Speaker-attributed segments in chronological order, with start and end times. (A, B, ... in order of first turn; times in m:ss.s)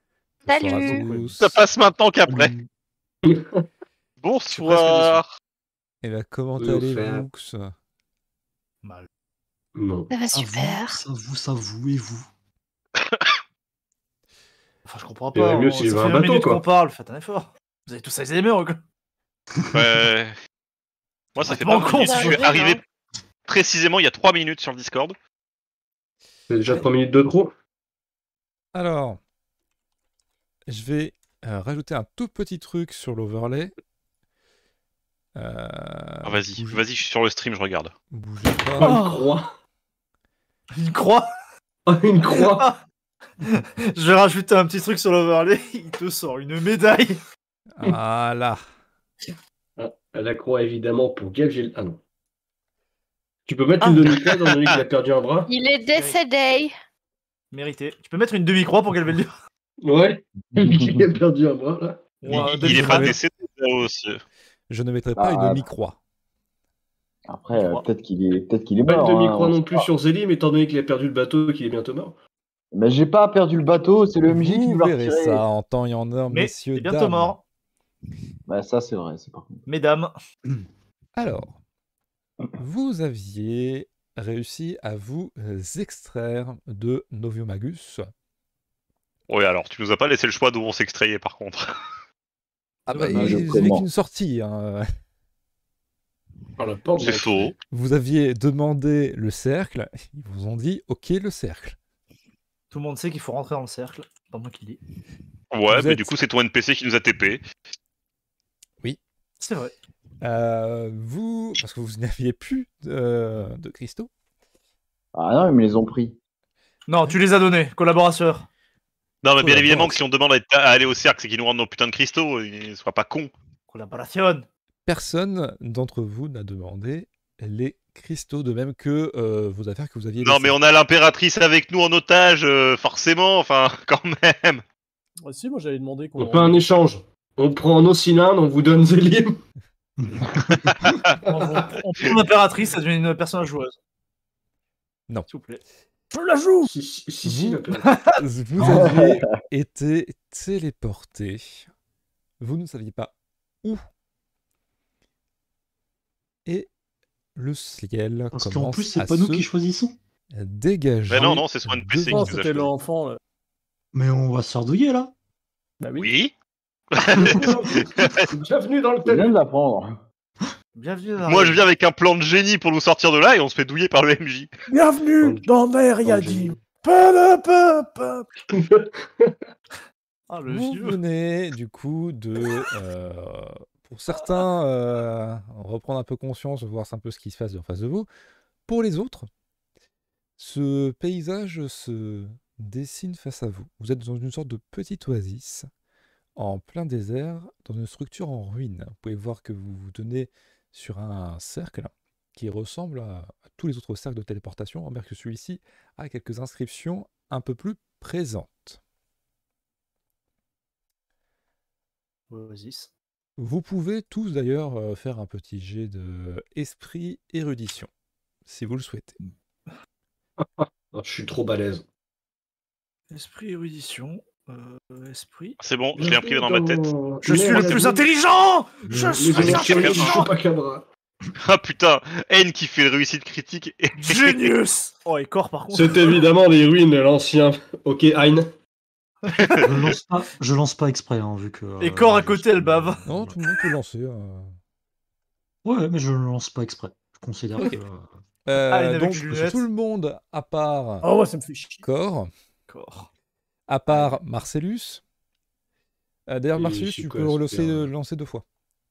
0:00.5-0:01.0 A
0:00.5-0:01.6 B
0:00.9-0:01.3 C
0:01.4-0:02.5 D
0:03.2-0:03.6 C
0:04.2-0:05.3 D
0:06.0-0:07.7 B
0:06.6-0:07.3 C
0:08.8-0:09.1 E
0:09.8-0:10.1 C
0:10.1-0:11.0 A
0:10.3-0:12.3 F
0:13.0-0:13.3 D
0:14.9-0:18.8 E
0:15.3-0:16.6 C
0:19.7-0:20.3 D
0:21.4-0:22.8 D
0:21.4-0:22.5 E
0:21.5-0:22.8 A
0:23.5-0:25.2 D
0:26.5-0:27.5 C
0:28.7-0:29.2 B
0:30.7-0:33.7 B
0:35.4-0:36.8 B
0:36.2-0:37.9 D
0:38.1-0:39.0 B
0:38.8-0:39.5 C
0:38.8-0:39.2 E
0:40.8-0:41.3 E
0:41.9-0:42.7 C
0:42.2-0:42.8 E
0:43.4-0:47.2 E
0:47.8-0:48.6 B
0:49.8-0:52.0 C
0:53.5-0:55.5 C
0:54.1-0:54.8 D
0:55.5-0:56.8 A
0:57.5-0:59.3 E
0:59.8-1:02.2 C
1:00.6-1:00.9 G
1:02.2-1:03.2 E
1:02.3-1:04.2 D
1:02.4-1:03.2 B
1:04.7-1:06.0 B
1:05.2-1:05.6 G
1:07.3-1:09.9 G
1:07.5-1:07.9 E
1:08.8-1:12.2 C
1:12.7-1:15.4 G
1:14.3-1:17.4 B
1:16.3-1:17.4 E
1:18.5-1:19.7 G
1:19.7-1:20.1 E
1:21.2-1:21.6 B
1:22.6-1:28.1 B
1:29.3-1:31.6 D
1:32.9-1:34.9 B
1:33.0-1:33.9 G
1:36.6-1:37.6 C
1:37.0-1:37.6 D
1:37.7-1:41.8 B
1:42.7-1:44.8 E
1:45.5-1:47.4 D
1:45.7-1:46.1 B
1:49.4-1:49.7 E
1:50.2-1:54.1 B
1:55.1-1:56.2 G
1:56.9-1:58.5 E
1:59.2-2:03.3 D
1:59.4-2:00.0 B
2:03.7-2:04.5 E
2:04.9-2:10.6 B
2:10.2-2:14.6 D
2:15.2-2:16.6 H
2:16.2-2:19.4 C
2:20.0-2:20.7 F
2:21.2-2:22.1 H
2:21.4-2:21.7 C
2:22.0-2:23.7 E
2:25.3-2:25.6 E
2:26.1-2:26.7 H
2:26.7-2:27.9 C
2:27.2-2:27.6 B
2:27.9-2:28.2 E
2:28.2-2:31.7 B
2:28.6-2:29.2 G
2:32.4-2:33.8 B
2:37.4-2:39.5 B
2:38.3-2:40.0 F
2:40.3-2:42.3 B
2:41.1-2:42.7 D
2:42.1-2:43.2 H
2:43.9-2:45.1 F
2:45.8-2:46.1 H
2:46.0-2:46.3 D
2:46.9-2:48.3 D
2:47.2-2:49.3 C
2:49.0-2:50.0 G
2:50.8-2:51.6 E
2:51.2-2:54.5 D
2:54.7-2:58.3 H
2:56.0-2:56.7 C
2:58.5-2:59.4 C
3:00.3-3:01.0 E
3:00.5-3:08.1 B
3:08.7-3:09.3 B
3:10.4-3:15.7 B
3:16.4-3:28.8 B
3:32.3-3:32.9 E
3:33.4-3:37.9 B
3:38.5-3:39.2 B
3:40.4-3:41.8 C
3:43.1-3:45.6 E
3:45.6-3:46.8 D
3:46.0-3:48.0 C
3:47.2-3:50.3 E
3:49.2-3:50.9 C
3:49.3-3:50.2 D
3:51.4-3:54.5 D
3:54.0-3:56.3 E
3:55.7-3:58.5 C
3:59.2-3:59.6 E
3:59.3-4:00.0 D
3:59.6-4:03.3 F
4:01.8-4:03.0 E
4:03.1-4:04.5 B
4:05.6-4:08.0 F
4:08.5-4:11.1 B
4:08.6-4:09.7 E
4:11.0-4:11.8 H
4:11.8-4:12.3 B
4:12.7-4:13.1 E
4:13.7-4:15.0 B
4:16.3-4:18.4 B
4:16.6-4:17.9 C